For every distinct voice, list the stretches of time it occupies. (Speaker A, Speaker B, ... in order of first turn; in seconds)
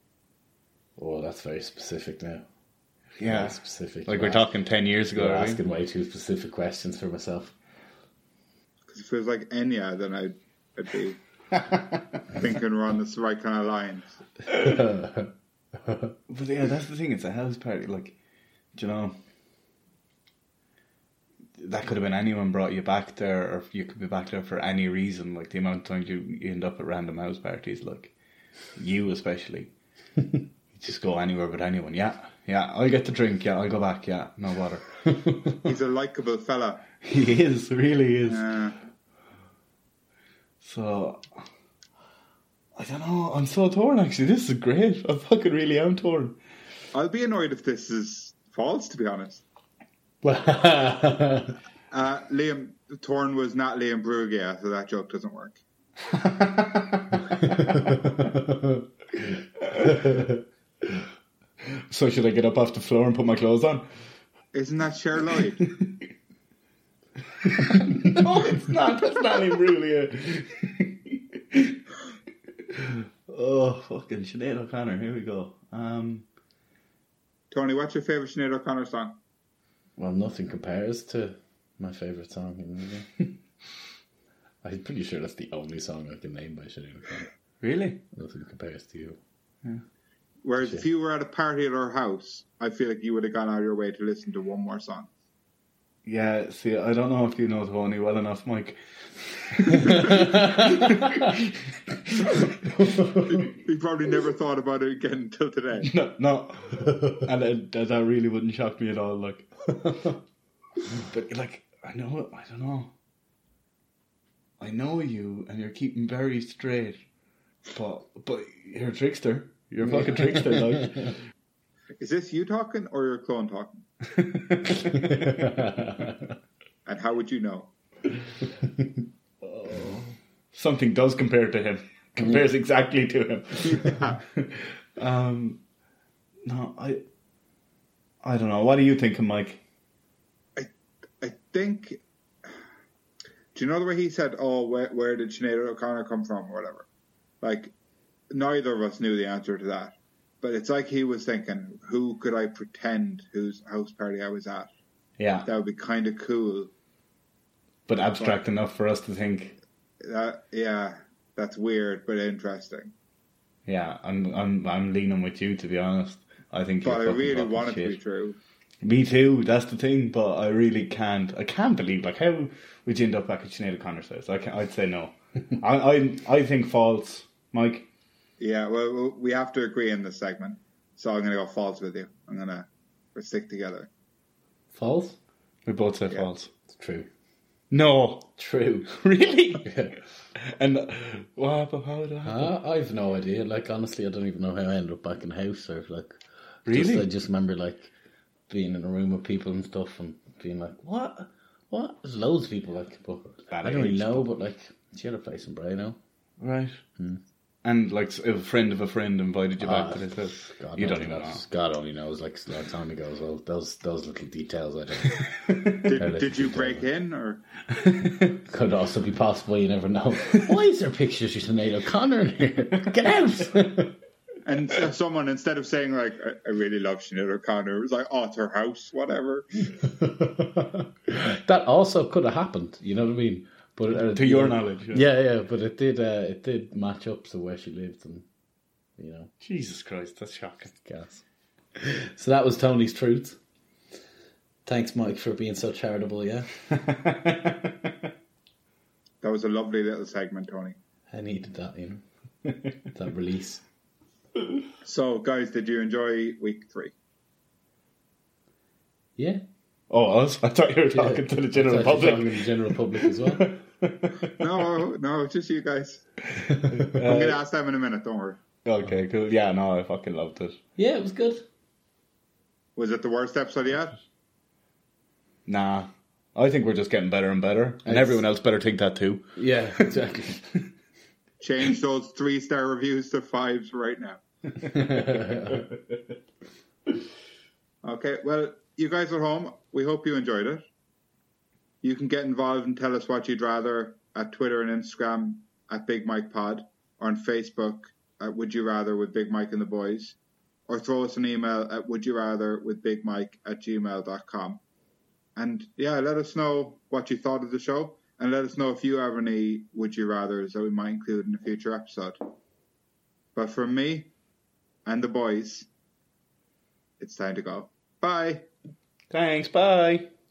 Speaker A: 1.0-2.5, 3.2-4.5, 5.2-7.5, 14.6-15.3, 35.2-35.5, 50.2-51.6, 57.5-58.8, 59.9-60.2, 80.0-83.2, 84.6-87.3, 88.1-89.2, 99.9-101.1, 103.0-103.2, 119.9-120.8, 124.9-126.2, 184.7-185.2, 186.7-187.1, 188.4-188.9, 189.7-190.0, 192.2-197.9, 198.5-206.0, 209.6-216.9, 218.4-223.9, 229.8-238.2, 239.0-239.3, 240.8-241.2, 241.8-243.4, 244.7-246.5, 251.1-252.0, 252.9-253.6, 259.2-259.4, 260.9-263.5, 266.4-266.9, 270.8-271.4, 277.9-278.2, 279.4-280.4, 284.6-285.7
Speaker B: 3.2-5.6, 11.5-12.2, 16.3-18.2, 18.7-19.2, 21.6-28.1, 28.8-29.7, 30.7-35.3, 37.0-38.5, 40.6-41.4, 42.8-46.4, 56.1-58.1, 59.6-60.3, 61.7-63.9, 65.6-66.0, 67.4-71.8, 72.7-76.2, 87.6-88.0, 96.0-103.0, 105.8-110.2, 111.0-112.9, 114.6-117.0, 117.7-121.2, 124.1-125.5, 129.4-135.6, 136.4-137.1, 138.2-139.6, 155.2-155.5, 157.9-159.6, 163.7-168.0, 168.8-177.9, 185.7-186.5, 187.7-189.8, 190.4-192.5, 196.7-197.1, 203.5-204.3, 206.4-206.8, 207.6-211.4, 215.1-215.9, 217.7-218.4, 234.0-235.1, 239.4-240.8, 246.7-247.9, 259.9-264.7, 266.5-267.4, 268.6-270.6, 275.5-279.9, 319.1-320.1
Speaker C: 8.9-11.2, 12.3-14.2, 35.6-36.9, 38.3-38.8, 46.9-49.4, 51.9-55.6, 64.5-65.6, 77.5-79.2, 90.4-95.1, 103.3-105.9, 122.0-123.8, 126.8-127.7, 140.6-142.5, 143.5-146.9, 147.4-147.7, 148.3-154.7, 155.4-156.7, 160.0-162.9, 166.8-168.4, 178.4-183.9, 215.8-217.4, 224.4-229.7, 249.2-250.8, 254.8-256.9, 264.4-266.1, 267.0-268.4, 272.8-274.0, 281.4-284.2, 287.8-290.6, 291.8-300.2, 300.7-304.6, 305.4-312.2, 313.4-314.1, 314.9-315.7, 317.0-318.5